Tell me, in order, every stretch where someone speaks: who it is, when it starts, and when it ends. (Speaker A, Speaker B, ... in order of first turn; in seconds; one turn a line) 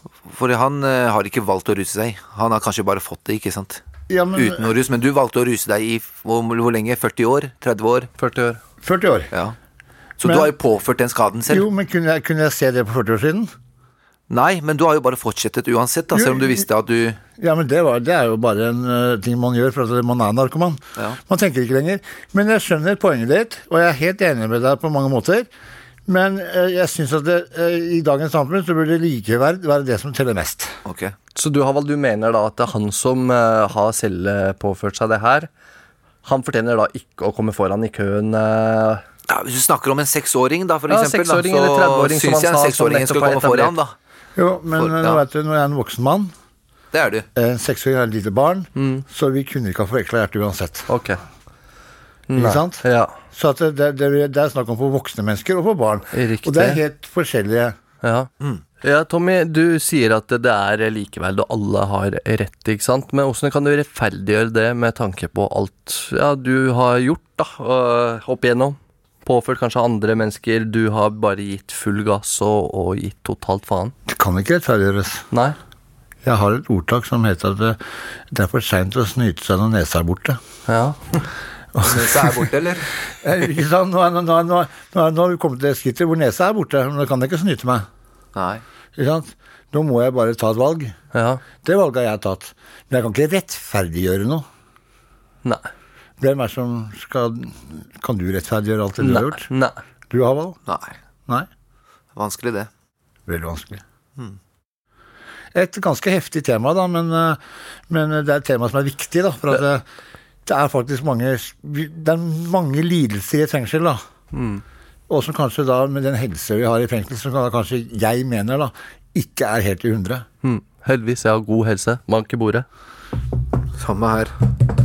Speaker A: 0.2-3.8
Speaker B: 4.1-4.7
Speaker A: 4.3-8.1
Speaker C: 8.2-8.6
Speaker B: 8.8-9.3
Speaker A: 10.2-11.7
Speaker B: 10.2-10.5
Speaker B: 11.5-13.5
Speaker A: 14.3-17.2
Speaker B: 16.1-16.6
Speaker B: 17.4-25.5
Speaker B: 26.1-30.7
Speaker A: 30.8-31.1
Speaker C: 31.3-35.5
Speaker C: 36.2-39.0
Speaker A: 39.3-43.9
Speaker C: 40.9-43.7
Speaker B: 44.4-46.3
Speaker A: 44.8-45.2
Speaker A: 46.9-47.2
Speaker B: 47.3-50.9
Speaker C: 48.8-49.0
Speaker C: 50.9-51.2
Speaker C: 52.3-53.1
Speaker B: 52.3-57.7
Speaker C: 56.1-56.8
Speaker C: 58.0-58.3
Speaker C: 58.8-73.9
Speaker B: 74.1-75.2
Speaker B: 76.2-77.8
Speaker B: 78.3-80.4
Speaker C: 80.7-81.2
Speaker B: 81.7-82.4
Speaker A: 81.8-82.8
Speaker B: 83.2-87.8
Speaker A: 88.3-88.6
Speaker B: 89.0-90.9
Speaker C: 91.1-91.4
Speaker B: 91.6-94.4
Speaker B: 96.2-99.5
Speaker C: 99.0-99.8
Speaker B: 100.1-100.6
Speaker A: 100.7-100.9
Speaker A: 102.1-102.7
Speaker B: 103.3-103.8
Speaker B: 105.5-109.8
Speaker B: 110.5-114.0
Speaker C: 114.3-114.6
Speaker B: 115.1-120.2
Speaker C: 120.4-122.6
Speaker A: 123.8-124.3